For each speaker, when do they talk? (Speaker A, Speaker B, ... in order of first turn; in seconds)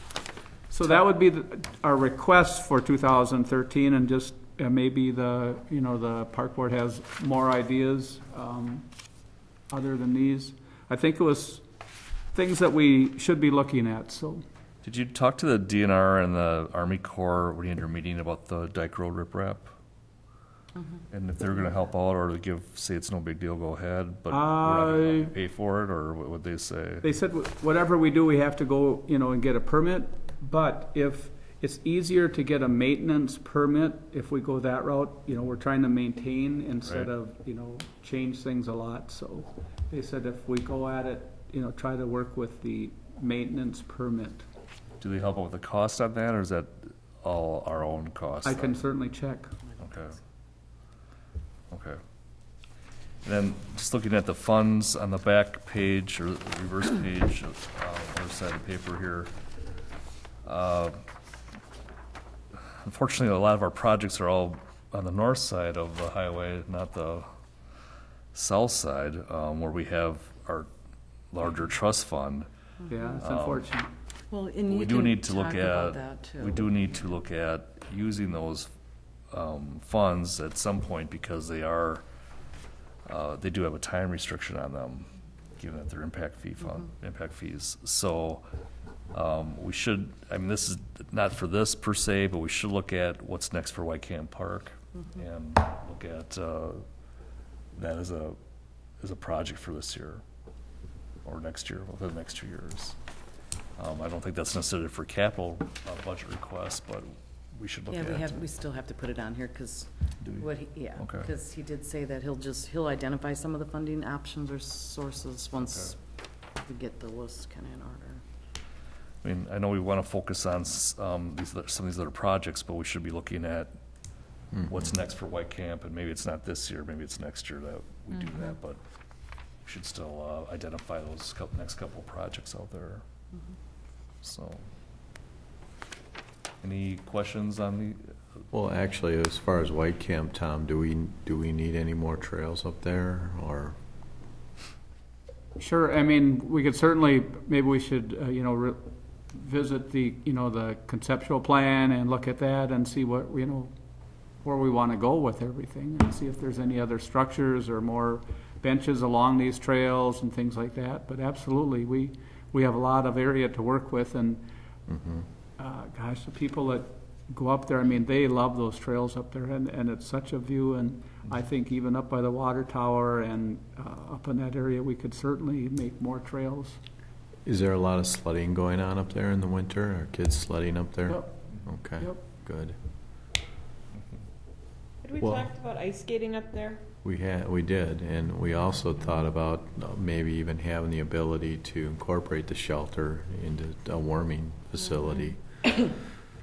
Speaker A: 0.7-8.9, 9.7-11.7, 12.3-14.4, 24.3-25.3, 27.0-44.5, 48.4-49.6, 72.9-73.9, 145.6-153.7, 154.4-164.4, 165.6-176.8, 181.1-181.4
Speaker B: 14.8-19.7, 21.1-27.1, 45.0-48.8, 49.8-50.2, 51.7-52.0, 53.2-59.3, 60.4-61.0, 62.5-67.3, 68.3-70.7, 71.3-72.5, 73.2-73.7, 74.7-78.7, 79.3-82.0, 83.1-88.5, 89.1-96.9, 97.8-98.4, 99.0-100.2, 101.2-103.0, 103.8-108.5, 110.2-111.3, 115.6-116.0, 119.2-123.8, 124.7-128.8, 129.6-133.1, 134.2-134.7, 136.6-138.2
Speaker C: 72.8-73.2, 74.3-76.7, 107.9-118.2
Speaker D: 124.5-124.9, 138.5-143.8, 164.9-165.3, 177.4-182.8, 185.2-185.5, 187.0-196.0
Speaker E: 128.1-128.6, 185.0-186.8, 194.8-195.3